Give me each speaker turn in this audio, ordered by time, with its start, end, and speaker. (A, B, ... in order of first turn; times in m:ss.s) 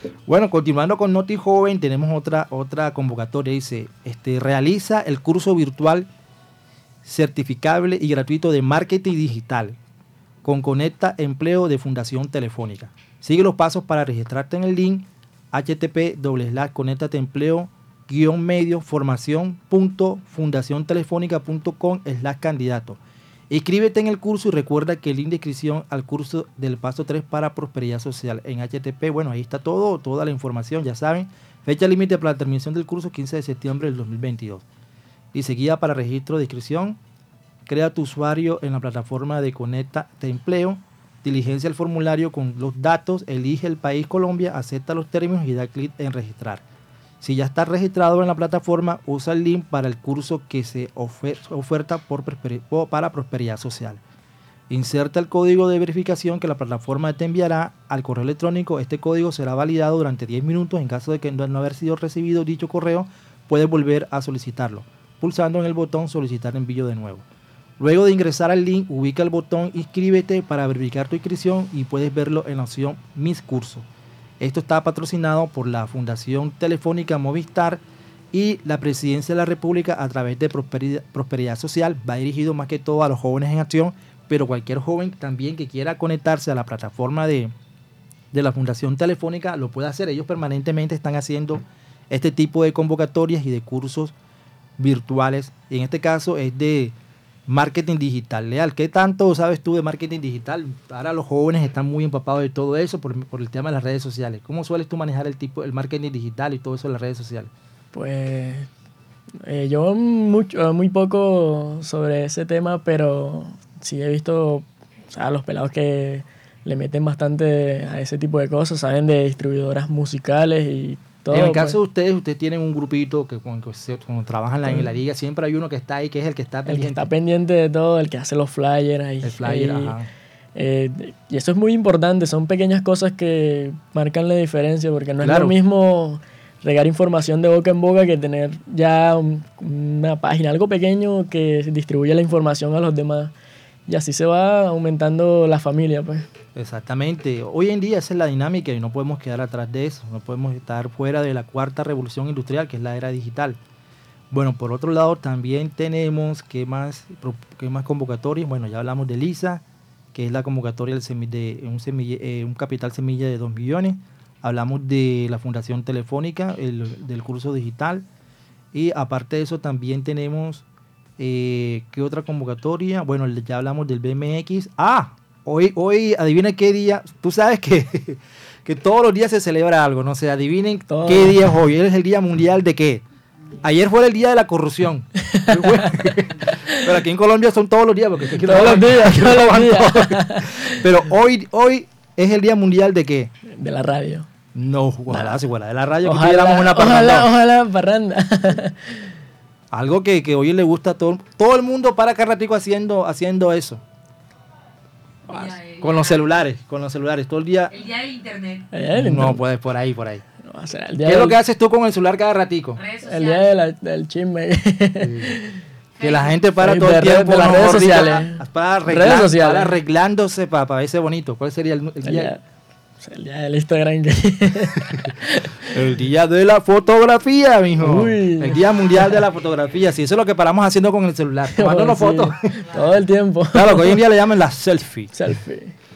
0:00.3-0:06.1 A
0:07.0-0:09.8 A
0:10.4-0:23.0 A
0:23.5-0:34.6 A
0:35.3-0:37.0 A
0:37.7-0:46.6 A
0:47.2-0:54.0 A
0:54.7-1:07.2 A
1:07.8-1:13.9 A
1:14.4-1:17.8 A
1:18.3-1:27.5 A
1:28.3-1:34.1 A
1:34.8-1:37.0 A
1:37.5-1:47.5 A
1:47.9-1:48.7 B
1:49.4-2:01.8 B
2:01.3-2:07.1 A
2:06.7-2:10.0 B
2:09.2-2:10.1 A
2:10.6-2:23.3 B
2:15.2-2:15.6 A
2:23.9-2:26.3 B
2:26.6-2:33.6 A
2:34.3-2:48.1 A
2:48.7-2:50.6 A
2:51.2-3:03.0 A
3:00.9-3:01.4 B
3:03.6-3:13.3 A
3:05.3-3:06.8 B
3:08.4-3:10.8 B
3:13.5-3:14.3 B
3:14.5-3:17.3 A
3:16.0-3:19.1 B
3:19.7-3:23.8 A
3:25.3-3:26.2 C
3:25.8-3:27.8 A
3:27.7-3:28.7 C
3:28.7-3:29.4 B
3:28.9-3:30.2 A
3:30.4-3:31.4 B
3:31.0-3:32.8 A
3:32.8-3:33.5 C
3:33.0-3:35.6 B
3:35.0-3:35.4 A
3:36.0-3:36.4 C
3:36.0-3:42.4 A
3:36.6-3:39.8 B
3:42.0-3:42.4 B
3:43.0-3:45.7 B
3:45.7-3:52.6 A
3:47.8-3:49.2 B
3:51.6-3:54.0 B
3:53.5-3:55.2 A
3:55.1-3:55.8 B